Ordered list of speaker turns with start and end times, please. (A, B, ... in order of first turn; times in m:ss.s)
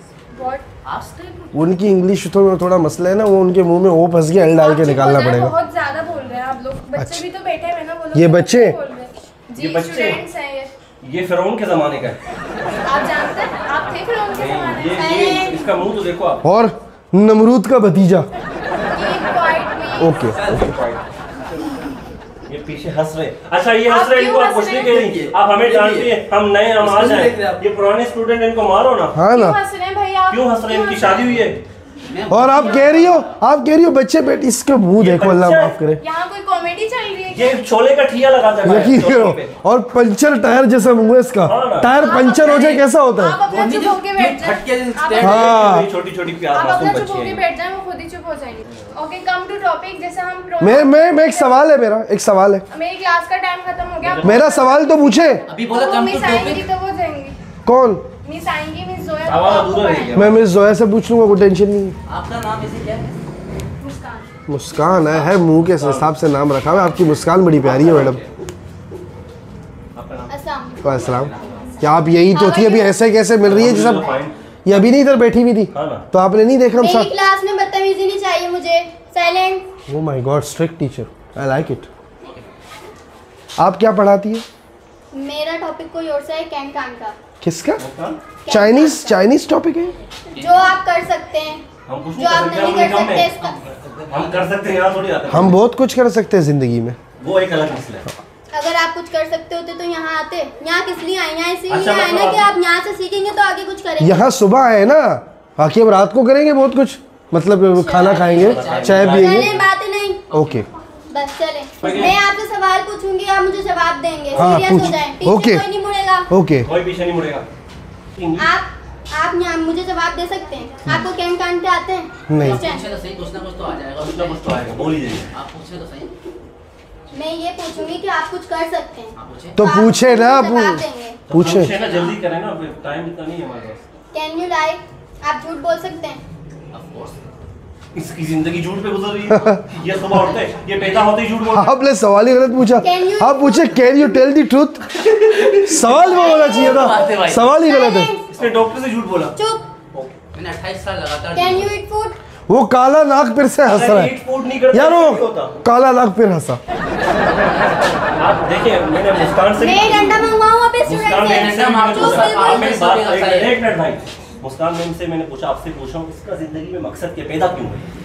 0:00.3-0:00.6 A
0:00.8-0:01.5 B
0:01.5-0:05.6 C
0:04.6-0:10.7 A
0:07.0-0:07.2 C
0:08.1-0:08.8 C
0:09.6-0:10.2 D
0:11.0-0:12.2 D
0:12.9-0:15.3 A
0:14.3-0:16.4 D
0:15.0-0:15.7 E
0:16.4-0:18.3 C
0:18.9-0:20.3 A
0:20.0-0:20.8 C
0:20.3-0:20.8 B
0:20.6-0:21.0 D
0:22.5-0:29.2 D
0:23.9-0:25.0 A
0:25.0-0:26.2 B
0:26.8-0:27.6 B
0:29.2-0:29.6 C
0:29.3-0:31.4 A
0:30.3-0:31.6 D
0:32.1-0:33.4 B
0:32.3-0:36.0 C
0:35.0-0:35.7 D
0:36.0-0:37.6 A
0:37.3-0:39.6 D
0:38.6-0:43.4 C
0:41.5-0:42.1 D
0:41.9-0:45.6 A
0:43.5-0:45.4 B
0:45.2-0:47.4 D
0:45.2-0:45.9 C
0:46.5-0:51.7 A
0:50.6-0:52.6 C
0:52.7-0:57.4 A
0:54.0-0:54.5 D
0:54.2-0:55.4 C
0:55.5-0:56.7 B
0:57.7-0:58.0 C
0:58.2-1:00.2 A
0:59.2-1:00.4 D
1:00.1-1:02.0 C
1:02.1-1:03.1 B
1:03.8-1:04.3 A
1:04.5-1:08.2 C
1:04.8-1:05.3 B
1:05.5-1:06.1 D
1:07.6-1:08.2 B
1:07.7-1:08.1 D
1:10.0-1:10.3 D
1:10.3-1:10.8 E
1:10.8-1:14.1 C
1:10.8-1:11.8 B
1:12.3-1:13.0 E
1:13.4-1:14.4 D
1:14.6-1:17.1 C
1:15.7-1:16.0 D
1:16.8-1:19.7 E
1:19.9-1:21.9 C
1:22.2-1:22.5 B
1:23.6-1:24.4 C
1:25.1-1:27.2 E
1:27.4-1:27.8 C
1:27.8-1:28.2 D
1:28.4-1:29.3 E
1:28.5-1:29.9 C
1:30.4-1:30.7 B
1:30.4-1:31.6 E
1:31.9-1:33.3 D
1:32.2-1:33.6 E
1:33.4-1:35.0 B
1:34.1-1:35.5 D
1:35.3-1:37.0 C
1:37.2-1:38.1 D
1:38.5-1:44.2 E
1:41.7-1:42.5 D
1:44.0-1:49.5 C
1:47.8-1:48.3 E
1:48.0-1:49.1 B
1:48.3-1:49.5 D
1:49.0-1:50.2 E
1:50.3-1:50.6 B
1:50.3-1:50.7 C
1:51.1-1:56.3 E
1:51.8-1:52.2 D
1:54.3-1:55.7 C
1:56.3-1:56.7 C
1:56.6-1:57.5 D
1:58.2-1:58.5 D
1:58.4-2:02.9 E
2:02.3-2:02.6 C
2:02.4-2:06.1 B
2:04.0-2:05.3 D
2:07.1-2:11.2 E
2:09.2-2:09.6 B
2:09.6-2:11.7 C
2:11.3-2:13.8 D
2:11.7-2:12.2 B
2:14.1-2:16.2 E
2:16.7-2:17.2 B
2:18.0-2:21.7 D
2:19.3-2:19.6 C
2:20.8-2:21.2 B
2:21.5-2:24.9 C
2:22.8-2:24.1 E
2:25.4-2:27.5 B
2:25.7-2:28.1 C
2:25.9-2:27.0 E
2:27.6-2:28.3 E
2:28.3-2:29.4 D
2:29.4-2:29.7 E
2:30.3-2:31.7 B
2:31.3-2:32.2 E
2:32.5-2:34.1 C
2:33.6-2:35.6 D
2:34.7-2:36.6 C
2:37.0-2:38.4 B
2:38.2-2:47.9 D
2:39.5-2:42.7 E
2:41.2-2:43.6 B